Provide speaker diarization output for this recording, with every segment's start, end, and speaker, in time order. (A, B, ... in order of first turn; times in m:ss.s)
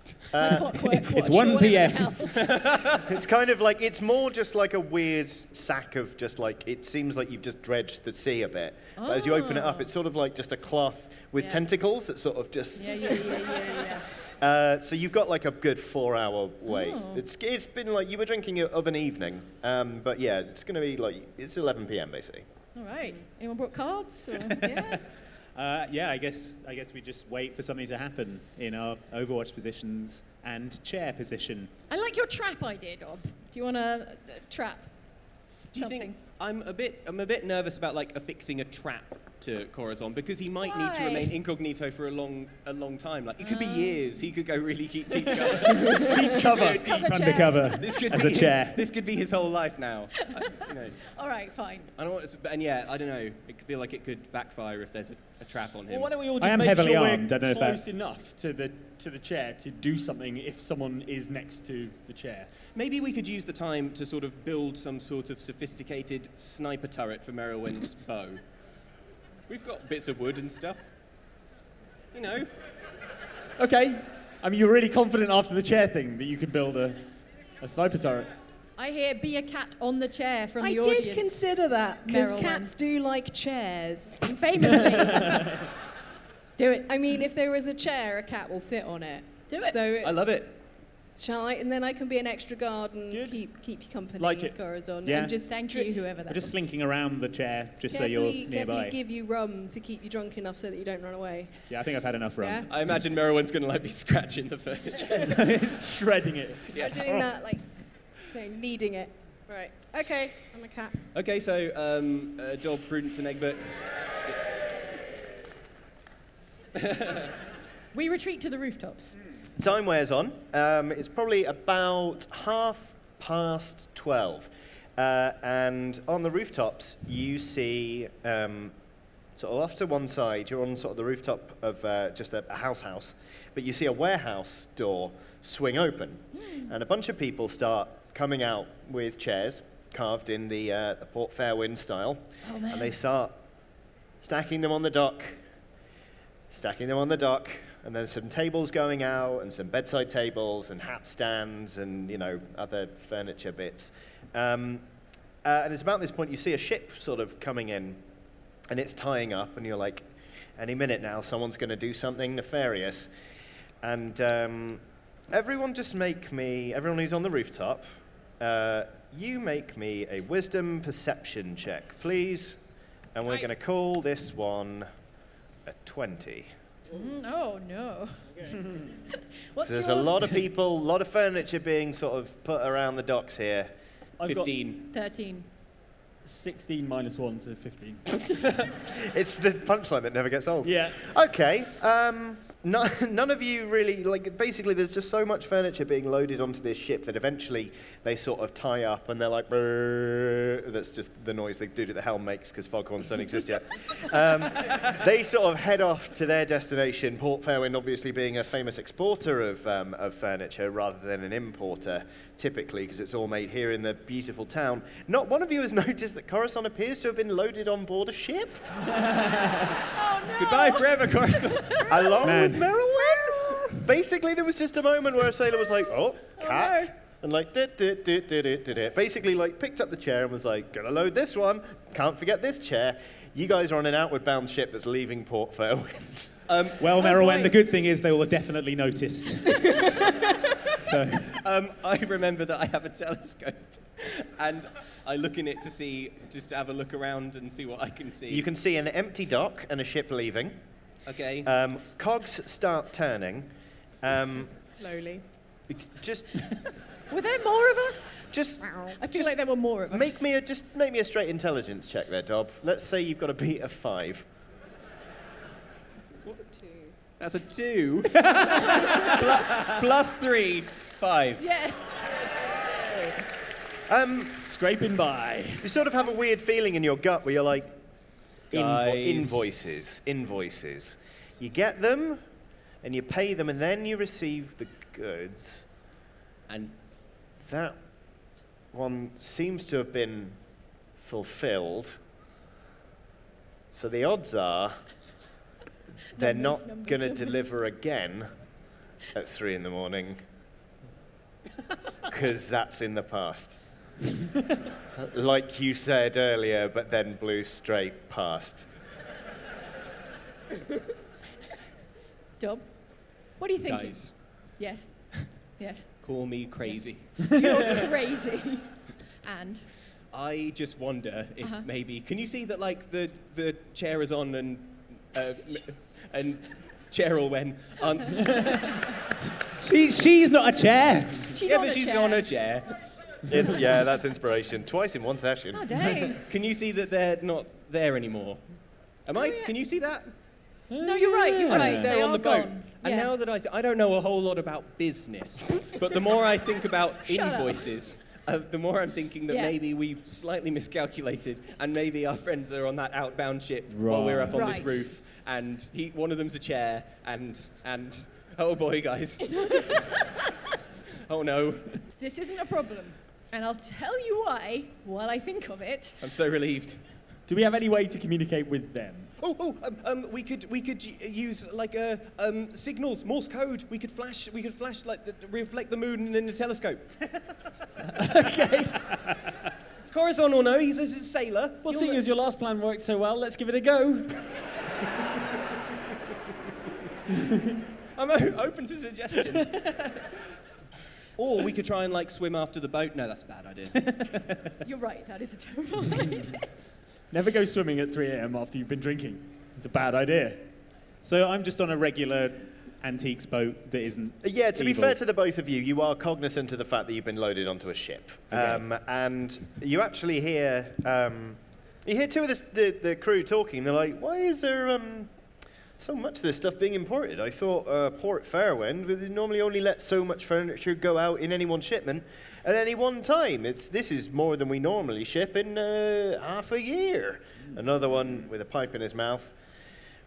0:00.3-0:01.0 A
0:00.3-0:02.4 B
0:01.0-0:02.4 C
0:02.3-0:03.1 D
0:03.0-0:13.8 A
0:09.0-0:09.9 B
0:11.4-0:11.6 B
0:12.8-0:14.1 B
0:14.4-0:22.5 A
0:16.7-0:17.2 B
0:22.8-0:24.6 B
0:24.4-0:25.0 C
0:24.6-0:25.0 E
0:25.6-0:31.7 C
0:31.9-0:34.9 B
0:35.7-0:46.9 D
0:35.7-0:36.2 B
0:40.6-0:41.3 B
0:43.4-0:44.0 B
0:45.5-0:47.3 F
0:45.6-0:47.8 B
0:46.8-0:48.8 C
0:47.8-0:51.1 D
0:51.0-0:51.9 B
0:52.0-0:56.1 D
0:55.9-1:02.5 F
0:56.4-0:57.8 C
1:02.8-1:08.4 D
1:09.5-1:10.8 D
1:12.1-1:12.5 D
1:13.6-1:18.3 F
1:18.8-1:22.7 B
1:20.6-1:24.4 E
1:24.2-1:25.4 B
1:26.6-1:27.0 B
1:26.9-1:30.3 E
1:29.5-1:29.8 B
1:30.0-1:30.5 D
1:31.2-1:36.2 E
1:33.1-1:33.4 F
1:34.2-1:34.6 F
1:35.0-1:35.4 C
1:35.4-1:36.5 B
1:36.3-1:39.0 C
1:37.9-1:41.7 E
1:41.7-1:42.7 C
1:42.4-1:42.7 E
1:42.7-1:45.3 D
1:45.3-1:45.8 C
1:45.5-1:46.7 F
1:46.7-1:47.2 D
1:46.8-1:47.6 E
1:48.2-1:51.0 E
1:51.1-1:53.6 D
1:56.8-1:57.3 D
1:57.9-1:59.2 B
1:59.6-2:08.8 A
2:09.4-2:23.4 A
2:16.4-2:16.7 B
2:22.4-2:23.0 B
2:24.2-2:25.4 A
2:26.5-2:34.9 A
2:35.4-2:38.0 A
2:38.7-2:40.0 A
2:40.6-2:43.1 A
2:43.8-2:47.9 A
2:48.4-2:52.6 A
2:53.1-2:54.9 A
2:55.7-2:56.5 A
2:56.9-2:58.5 B
2:59.1-3:00.3 B
2:59.6-3:03.7 A
3:04.2-3:04.7 F
3:04.3-3:04.9 D
3:04.9-3:05.5 B
3:06.2-3:08.0 F
3:08.9-3:38.9 A
3:10.6-3:11.0 F
3:39.9-3:42.3 B
3:40.4-3:41.9 D
3:41.9-3:56.3 A
3:42.2-3:42.8 C
3:46.4-3:46.9 B
3:56.5-3:56.8 D
3:56.8-3:59.9 C
3:57.0-3:57.6 B
4:00.8-4:01.4 C
4:01.4-4:08.5 D
4:08.3-4:10.6 A
4:11.1-4:11.5 D
4:11.4-4:13.5 A
4:14.0-4:14.5 A
4:14.5-4:15.2 E
4:15.7-4:16.3 A
4:17.1-4:20.2 B
4:18.3-4:19.4 A
4:19.9-4:24.3 A
4:26.3-4:27.0 E
4:27.2-4:31.4 D
4:28.2-4:29.0 C
4:31.4-4:32.0 B
4:33.9-4:34.4 A
4:34.4-4:35.7 F
4:35.6-4:37.8 A
4:38.5-4:42.2 A
4:38.5-4:39.5 D
4:42.8-4:45.7 A
4:46.5-4:46.8 D
4:47.4-4:47.8 A
4:48.7-4:50.4 A
4:51.0-4:52.0 A
4:53.7-4:54.8 A
4:56.2-4:57.6 B
4:56.2-4:58.3 A
4:59.1-5:00.2 A
5:02.0-5:03.6 A
5:05.0-5:08.7 A
5:12.4-5:16.0 B
5:13.7-5:14.6 D
5:16.0-5:17.8 D
5:16.7-5:19.7 B
5:20.1-5:28.6 D
5:29.6-5:31.4 C
5:31.3-5:32.2 B
5:31.4-5:32.8 D
5:33.3-5:35.6 A
5:35.5-5:36.2 B
5:36.3-5:38.4 D
5:39.0-5:40.1 D
5:39.2-5:39.5 B
5:40.7-5:41.9 C
5:40.8-5:43.1 B
5:41.5-5:59.8 D
5:47.1-5:47.6 B
5:49.3-5:49.6 B
5:53.7-5:54.7 C
5:54.3-5:54.8 B
5:59.4-6:00.0 B
6:01.1-6:01.8 D
6:02.0-6:06.0 B
6:06.0-6:06.8 D
6:07.3-6:09.1 F
6:09.2-6:16.9 D
6:17.9-6:18.9 F
6:19.9-6:22.0 D
6:21.6-6:24.2 F
6:28.0-6:30.0 D
6:31.2-6:33.8 D
6:33.9-6:34.5 C
6:34.6-6:36.5 B
6:37.1-6:40.4 F
6:41.0-6:45.0 C
6:44.2-6:55.1 A
6:48.3-6:48.6 C
6:55.8-7:09.4 A